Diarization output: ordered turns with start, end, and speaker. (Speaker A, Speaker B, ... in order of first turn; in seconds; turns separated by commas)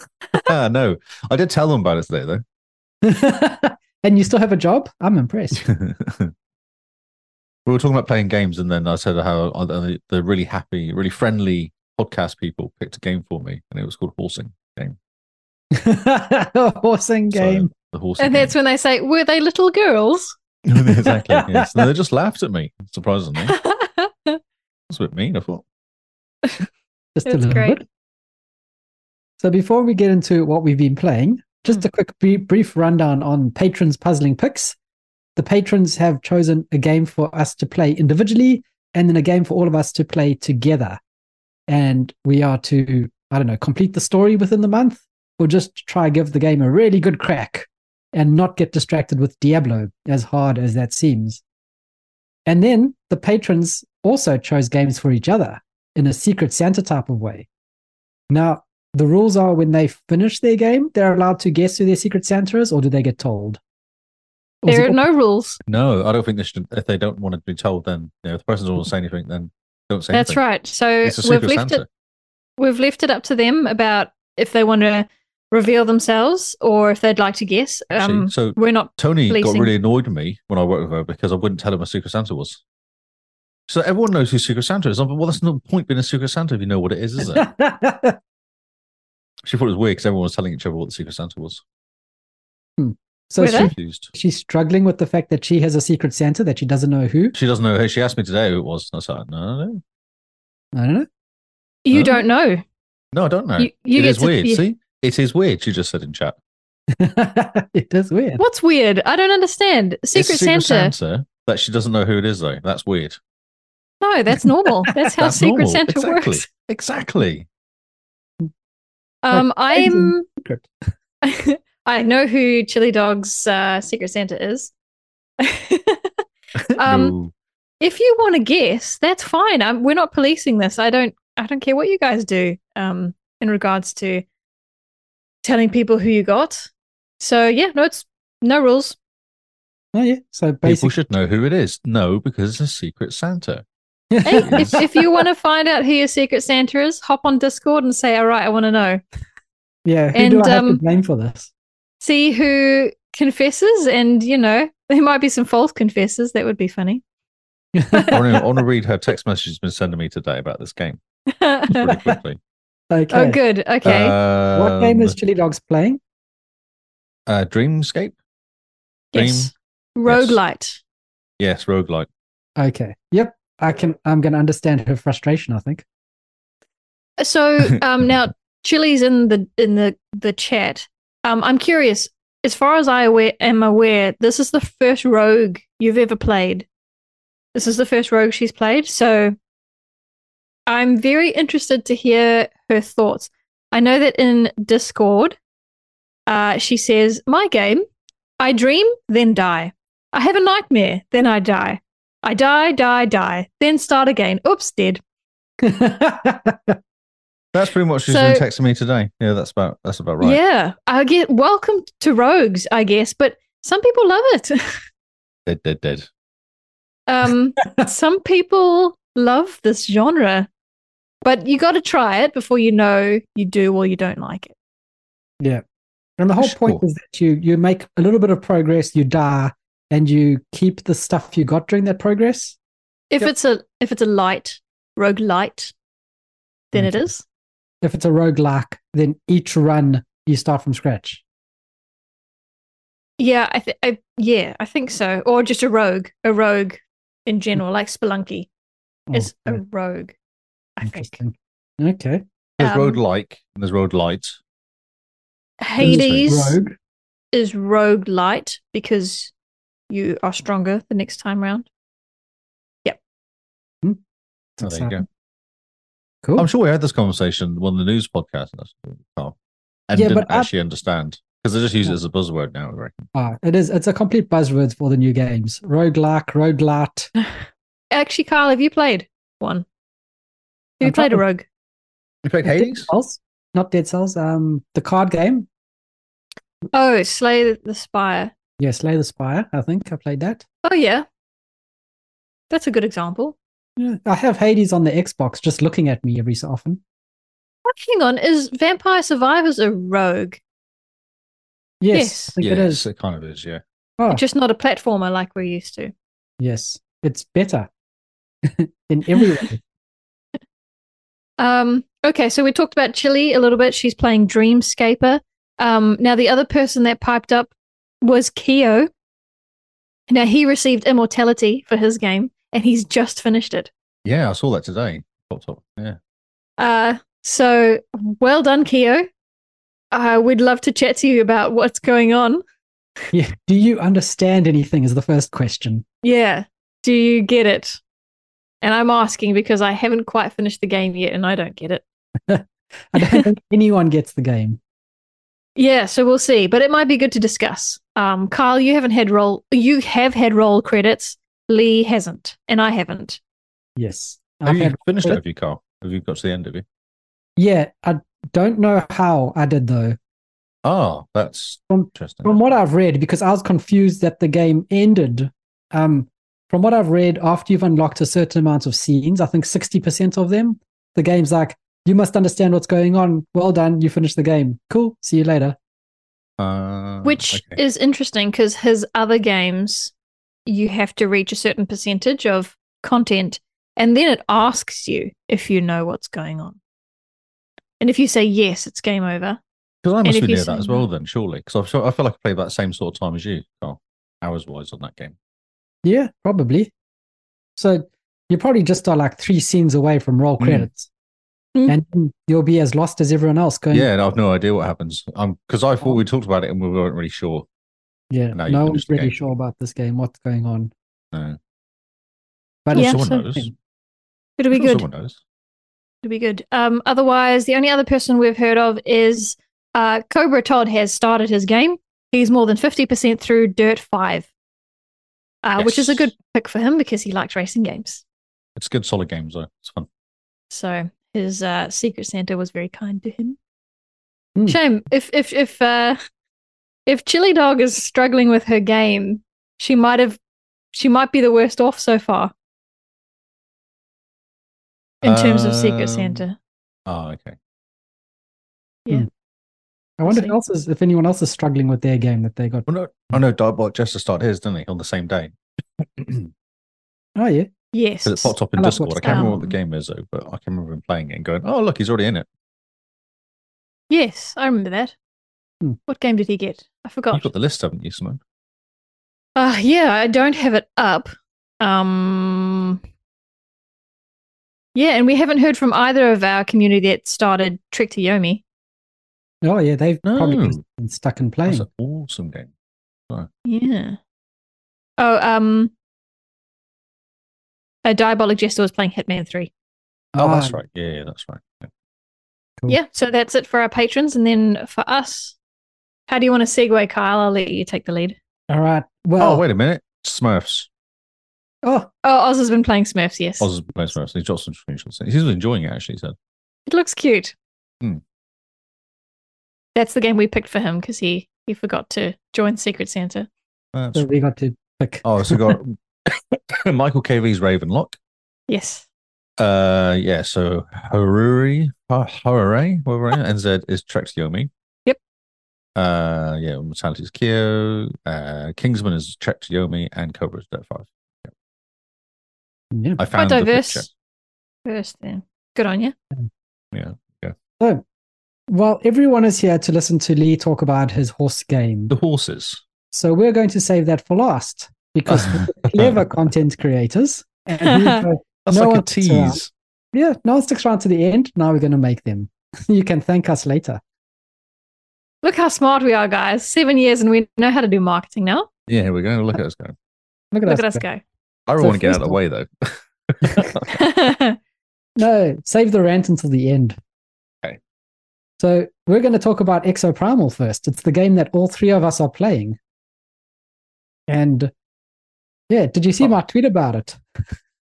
Speaker A: 0.3-2.4, Speaker B: 3.0-5.6, Speaker A: 5.5-6.3, Speaker A: 7.7-14.9, Speaker B: 15.7-17.7, Speaker A: 17.3-18.5, Speaker C: 18.2-20.4, Speaker A: 20.6-23.6, Speaker B: 20.8-21.9, Speaker C: 23.4-24.4, Speaker A: 24.9-25.6, Speaker B: 27.1-27.8, Speaker C: 27.3-27.8, Speaker B: 29.4-34.8, Speaker B: 35.4-41.0, Speaker B: 41.7-51.4, Speaker B: 52.5-57.5, Speaker B: 58.3-63.6, Speaker B: 64.6-65.0, Speaker C: 64.7-65.6, Speaker A: 65.7-70.4, Speaker C: 70.1-71.8, Speaker A: 71.0-71.9, Speaker C: 72.6-79.7, Speaker A: 77.9-82.6, Speaker A: 83.7-87.5, Speaker B: 87.3-88.2, Speaker A: 89.5-91.6, Speaker B: 92.8-97.3, Speaker C: 93.4-93.7, Speaker A: 93.5-94.1, Speaker A: 97.3-99.8, Speaker B: 100.7-101.1, Speaker C: 101.8-102.6, Speaker A: 101.9-102.2, Speaker A: 103.1-106.3, Speaker C: 103.6-104.6, Speaker B: 106.9-108.4, Speaker C: 108.4-110.9, Speaker A: 110.1-113.2, Speaker C: 114.0-116.4, Speaker B: 114.4-114.9, Speaker A: 115.1-117.5, Speaker C: 119.2-120.2, Speaker B: 119.3-120.7, Speaker C: 121.2-124.7, Speaker C: 125.4-126.1, Speaker A: 126.7-127.3, Speaker C: 126.8-127.1, Speaker C: 127.8-134.2, Speaker C: 135.4-138.9, Speaker B: 139.9-141.0, Speaker A: 140.6-143.6, Speaker B: 144.1-145.2, Speaker C: 144.2-149.0, Speaker A: 144.3-144.8, Speaker B: 149.8-151.5, Speaker C: 150.1-150.8, Speaker C: 152.0-157.0, Speaker B: 157.7-158.4, Speaker A: 158.1-161.0, Speaker C: 161.3-162.0, Speaker A: 161.7-162.4, Speaker B: 162.9-163.4, Speaker C: 163.1-164.2, Speaker A: 163.8-165.1, Speaker B: 164.5-166.0, Speaker A: 167.3-168.2, Speaker C: 169.1-170.8, Speaker A: 169.1-169.5, Speaker A: 170.1-170.4, Speaker A: 171.4-172.1, Speaker B: 172.6-175.8, Speaker C: 177.2-186.7, Speaker C: 187.5-189.3, Speaker C: 190.7-195.3, Speaker C: 196.3-197.8, Speaker C: 198.4-205.0, Speaker B: 205.6-206.8, Speaker A: 207.5-210.4, Speaker C: 208.1-208.4, Speaker C: 210.2-214.8, Speaker A: 215.5-216.1, Speaker C: 217.1-220.5, Speaker C: 221.2-224.5, Speaker B: 226.2-232.6, Speaker A: 226.4-226.8, Speaker C: 233.1-235.7, Speaker C: 236.7-237.2, Speaker B: 237.8-241.2, Speaker C: 243.2-248.5, Speaker B: 249.1-249.6, Speaker C: 249.1-250.1, Speaker C: 250.8-251.1, Speaker B: 250.8-252.2, Speaker A: 252.6-254.4, Speaker C: 252.6-253.0, Speaker C: 255.6-256.6, Speaker A: 255.8-256.3, Speaker B: 255.8-256.8, Speaker C: 257.3-259.3, Speaker C: 259.9-261.7, Speaker B: 264.6-265.0, Speaker A: 264.6-265.1, Speaker A: 266.4-269.3, Speaker A: 269.9-273.0, Speaker B: 269.9-270.5, Speaker B: 273.1-277.1, Speaker C: 277.9-279.6, Speaker C: 280.8-281.4, Speaker B: 280.8-281.2, Speaker A: 282.2-282.9, Speaker B: 282.4-285.5, Speaker C: 286.7-288.3, Speaker B: 288.6-290.4, Speaker C: 290.6-291.1, Speaker C: 292.5-293.4, Speaker B: 293.8-296.8, Speaker C: 297.6-300.4, Speaker B: 301.8-302.8, Speaker C: 301.9-302.3, Speaker A: 302.4-303.6, Speaker C: 304.1-305.9, Speaker B: 306.4-307.7, Speaker B: 308.4-309.6, Speaker C: 311.4-318.9, Speaker C: 320.1-323.7, Speaker A: 324.0-326.0, Speaker C: 326.6-329.1, Speaker C: 329.9-332.4, Speaker B: 333.1-335.8, Speaker C: 336.0-337.8, Speaker C: 338.6-341.8, Speaker B: 342.3-344.6, Speaker C: 343.0-343.2, Speaker C: 345.6-353.2, Speaker B: 353.8-355.2, Speaker A: 354.4-356.6, Speaker B: 357.4-360.0, Speaker A: 360.6-362.4, Speaker B: 361.7-375.6, Speaker A: 376.4-377.6, Speaker C: 377.0-379.9, Speaker C: 380.4-386.6, Speaker C: 387.8-389.4, Speaker A: 389.8-395.1, Speaker C: 390.0-390.9, Speaker B: 395.8-396.7, Speaker B: 397.6-400.9, Speaker A: 400.4-400.7, Speaker B: 401.7-403.9, Speaker A: 403.7-407.4, Speaker B: 408.1-410.7, Speaker A: 408.3-409.1, Speaker A: 411.1-411.4, Speaker B: 412.6-413.5, Speaker A: 412.7-413.5, Speaker C: 412.7-413.0, Speaker C: 414.4-414.9, Speaker A: 414.5-415.2, Speaker C: 416.0-424.3, Speaker C: 425.4-428.0, Speaker A: 425.6-426.1, Speaker A: 428.6-429.9, Speaker C: 430.5-433.4, Speaker C: 434.5-436.0, Speaker C: 436.9-440.2, Speaker C: 440.7-442.3, Speaker C: 445.0-446.4, Speaker A: 445.0-446.2, Speaker A: 446.9-447.4, Speaker B: 450.0-452.6, Speaker C: 450.1-450.3, Speaker A: 452.7-456.3, Speaker B: 457.1-457.5, Speaker C: 457.7-458.3, Speaker A: 458.0-462.3, Speaker B: 458.6-459.5, Speaker C: 459.0-459.4, Speaker C: 463.9-464.9, Speaker C: 465.9-467.3, Speaker A: 467.1-468.2, Speaker C: 469.4-471.1, Speaker C: 471.6-472.8, Speaker C: 474.7-478.4, Speaker B: 479.4-481.6, Speaker A: 480.0-480.6, Speaker A: 481.4-482.5, Speaker C: 483.4-484.0, Speaker C: 485.0-485.7, Speaker C: 487.8-489.5, Speaker B: 490.1-490.6, Speaker A: 490.2-491.7, Speaker C: 492.7-495.3, Speaker C: 496.1-498.1, Speaker B: 498.5-499.4, Speaker A: 499.2-500.7, Speaker B: 501.6-501.9, Speaker C: 502.0-503.5, Speaker A: 503.4-506.1, Speaker C: 506.7-507.3, Speaker C: 509.7-513.3, Speaker A: 513.7-514.1, Speaker B: 513.9-515.6, Speaker A: 515.0-518.0, Speaker C: 518.5-518.8, Speaker A: 519.4-524.5, Speaker A: 525.8-531.3, Speaker B: 532.7-533.0, Speaker A: 533.0-533.9, Speaker C: 533.1-533.9, Speaker C: 534.6-535.9, Speaker A: 536.7-537.3, Speaker B: 538.5-541.9, Speaker A: 541.9-542.6, Speaker B: 542.9-549.4, Speaker A: 545.1-546.0, Speaker C: 547.6-548.0, Speaker A: 548.4-549.5, Speaker B: 549.9-553.8, Speaker C: 555.2-558.5, Speaker A: 558.7-559.7, Speaker B: 560.3-560.8, Speaker C: 560.5-561.0, Speaker A: 561.5-563.7, Speaker B: 561.6-562.2, Speaker B: 563.2-563.5, Speaker C: 563.7-564.4, Speaker B: 565.0-566.8, Speaker B: 568.4-572.6, Speaker B: 574.1-574.5, Speaker B: 575.5-577.0